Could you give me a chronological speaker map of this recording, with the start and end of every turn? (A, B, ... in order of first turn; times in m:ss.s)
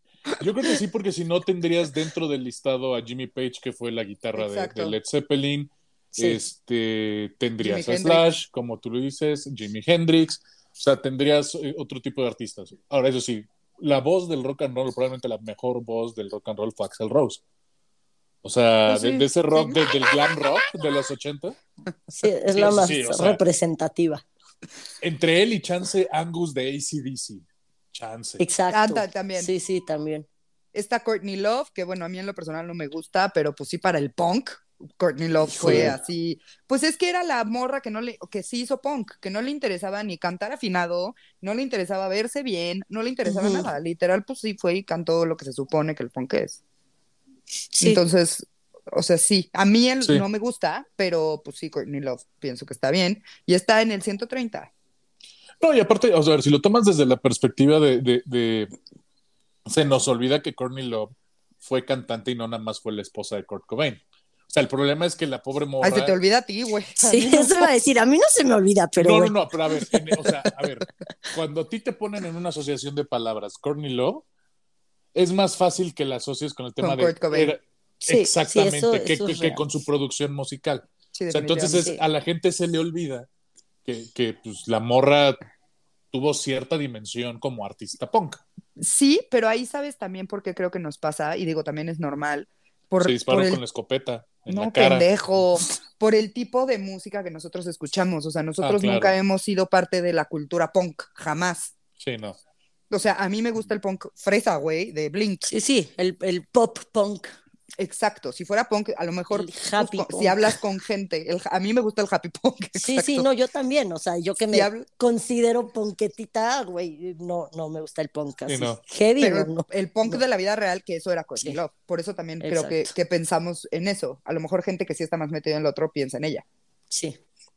0:00.3-0:17.4 A
0:04.4-0:05.0 B
0:07.6-0:08.3 B
0:18.4-0:21.6 A
0:18.9-0:19.8 B
0:22.1-0:24.2 C
0:22.5-0:23.4 A
0:25.0-0:28.4 A
0:28.4-0:30.3 C
0:28.7-0:29.5 B
0:30.7-0:46.6 B
0:35.5-0:36.0 C
0:35.6-0:35.9 A
0:43.2-0:43.7 C
0:47.7-0:48.0 C
0:47.8-0:54.7 B
0:55.6-0:58.7 A
0:59.6-1:06.2 A
1:05.8-1:07.7 B
1:07.0-1:09.4 C
1:09.0-1:14.2 A
1:15.1-1:23.3 A
1:16.8-1:17.6 B
1:18.0-1:19.6 C
1:21.1-1:21.9 B
1:21.7-1:22.0 C
1:23.8-1:25.4 A
1:26.1-1:28.4 A
1:28.8-1:33.6 B
1:33.0-1:35.1 A
1:34.5-1:41.7 B
1:38.6-1:39.1 A
1:42.0-1:42.4 A
1:42.9-1:45.5 B
1:45.4-1:47.3 C
1:47.8-1:53.3 B
1:49.3-1:50.6 C
1:52.8-2:00.2 C
1:54.5-1:54.8 B
1:58.5-1:58.8 A
1:59.2-2:06.4 B
2:02.4-2:02.9 C
2:06.9-2:07.2 C